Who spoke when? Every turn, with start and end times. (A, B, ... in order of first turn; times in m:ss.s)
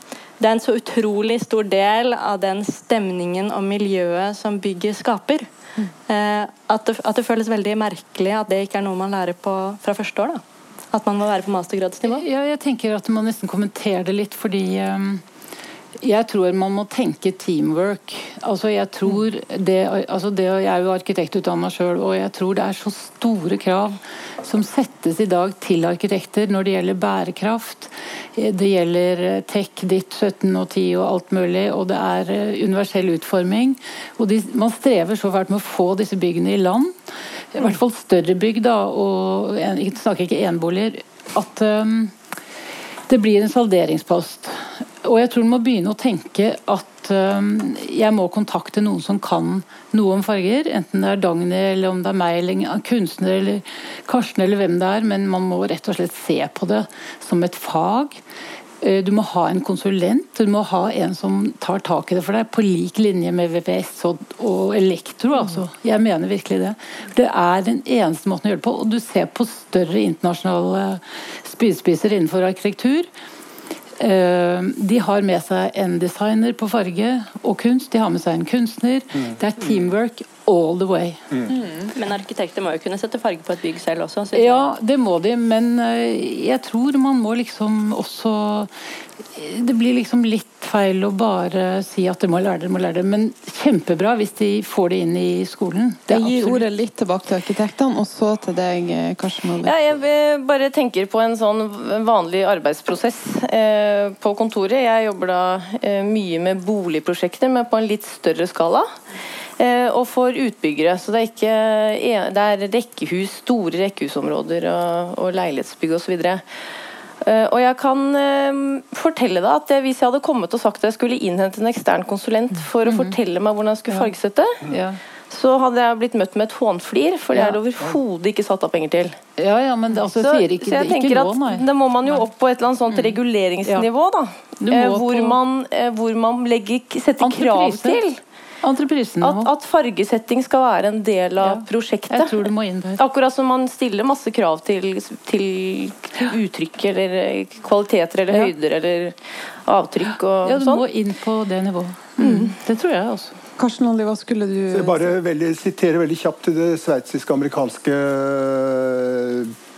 0:00.4-0:05.5 A
0:06.1-0:12.2 A
0:12.1-0:15.2 B
0:16.0-0:37.0 B
0:37.5-0:42.1 B
0:43.1-0:58.2 B
0:58.8-1:13.1 B
1:14.0-1:21.3 B
1:21.5-1:21.9 C
1:22.0-1:24.7 A
1:24.3-1:28.7 B
1:29.4-1:36.6 B
1:36.1-1:39.7 C
1:39.5-1:48.9 D
1:49.6-1:56.4 D
1:57.2-2:04.6 D
2:02.8-2:03.1 B
2:04.7-2:05.0 B
2:05.3-2:09.2 D
2:07.3-2:07.6 B
2:09.4-2:12.2 B
2:10.2-2:18.2 D
2:12.9-2:13.9 B
2:14.6-2:15.4 B
2:17.2-2:18.0 B
2:18.6-2:19.5 B
2:19.2-2:22.4 D
2:21.4-2:23.0 B
2:23.0-2:30.8 D
2:30.4-2:33.4 B
2:33.6-2:35.0 C
2:34.7-2:39.6 E